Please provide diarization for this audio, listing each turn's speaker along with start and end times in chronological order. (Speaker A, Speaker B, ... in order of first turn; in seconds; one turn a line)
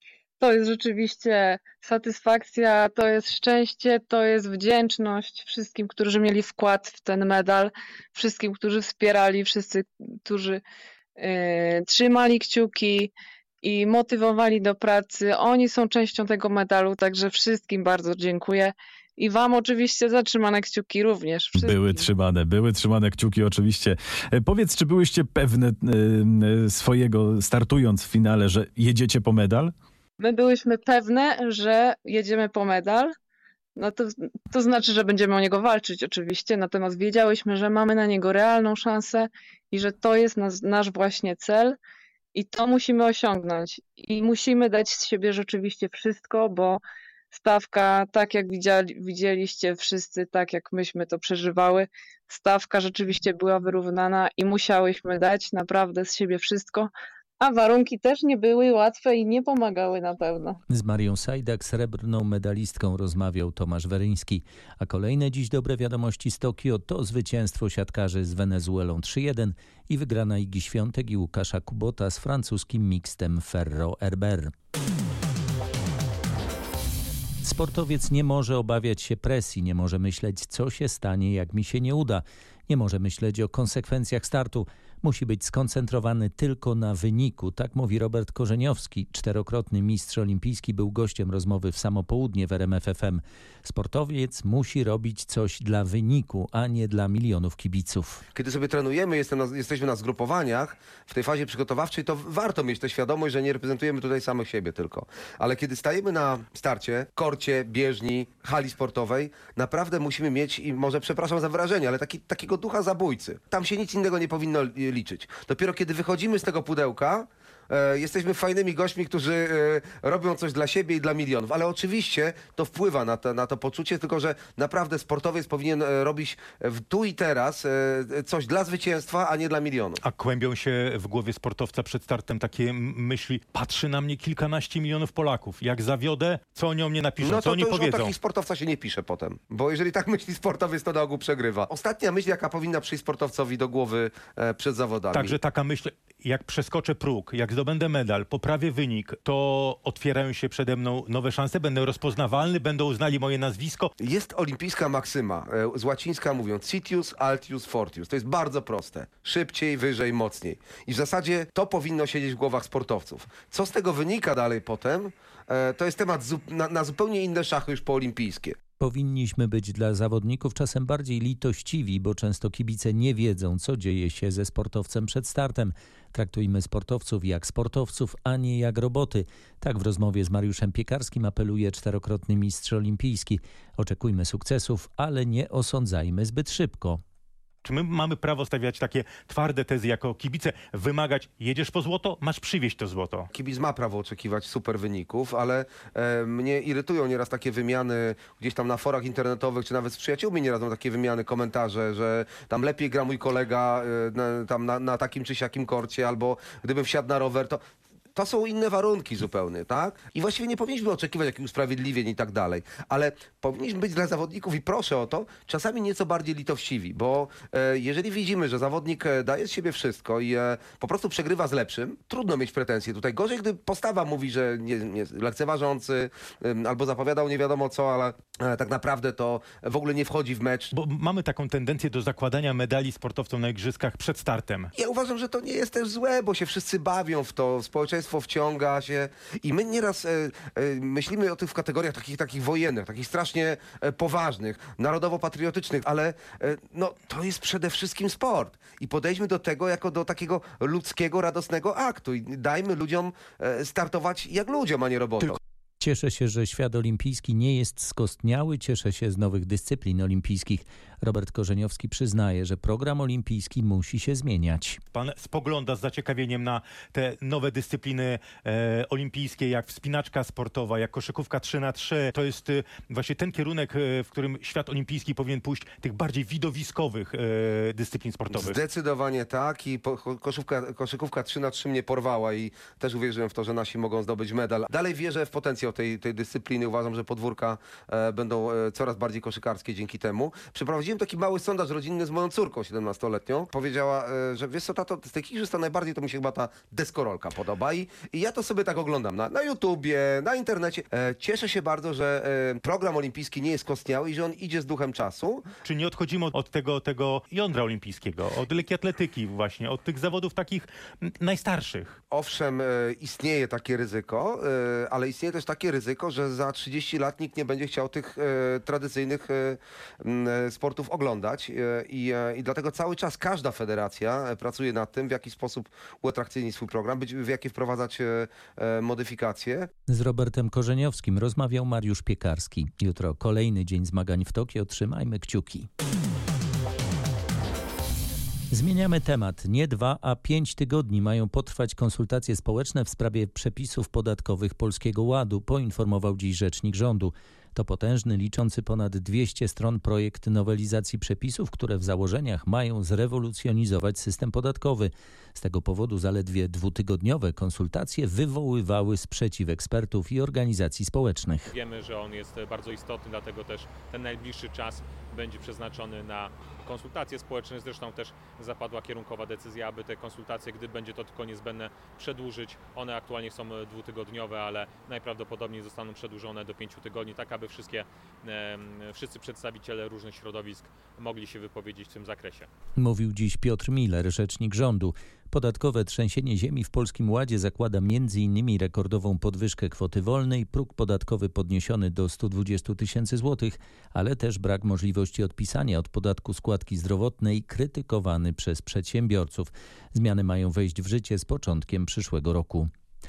Speaker A: 0.4-10.6
Speaker A: 11.2-13.1
Speaker A: 13.6-22.1
Speaker B: 21.6-29.7
Speaker A: 30.2-33.1
Speaker A: 33.8-41.8
Speaker A: 42.3-46.8
Speaker A: 47.3-60.6
Speaker C: 60.7-74.5
Speaker C: 77.4-98.2
Speaker D: 98.3-130.0
Speaker E: 130.0-138.1
Speaker D: 137.2-145.4
Speaker E: 145.1-153.9
Speaker D: 154.0-168.6
Speaker C: 168.8-187.0
Speaker E: 187.6-193.3
Speaker D: 193.3-207.6
Speaker D: 208.2-230.7
Speaker E: 230.7-234.7
Speaker D: 234.8-255.4
Speaker C: 255.8-264.8
Speaker E: 264.9-278.6
Speaker D: 278.3-305.4
Speaker E: 305.6-312.0
Speaker D: 312.1-329.7
Speaker C: 329.9-335.7
Speaker C: 338.5-361.5
Speaker F: 361.5-382.5
Speaker C: 382.8-402.7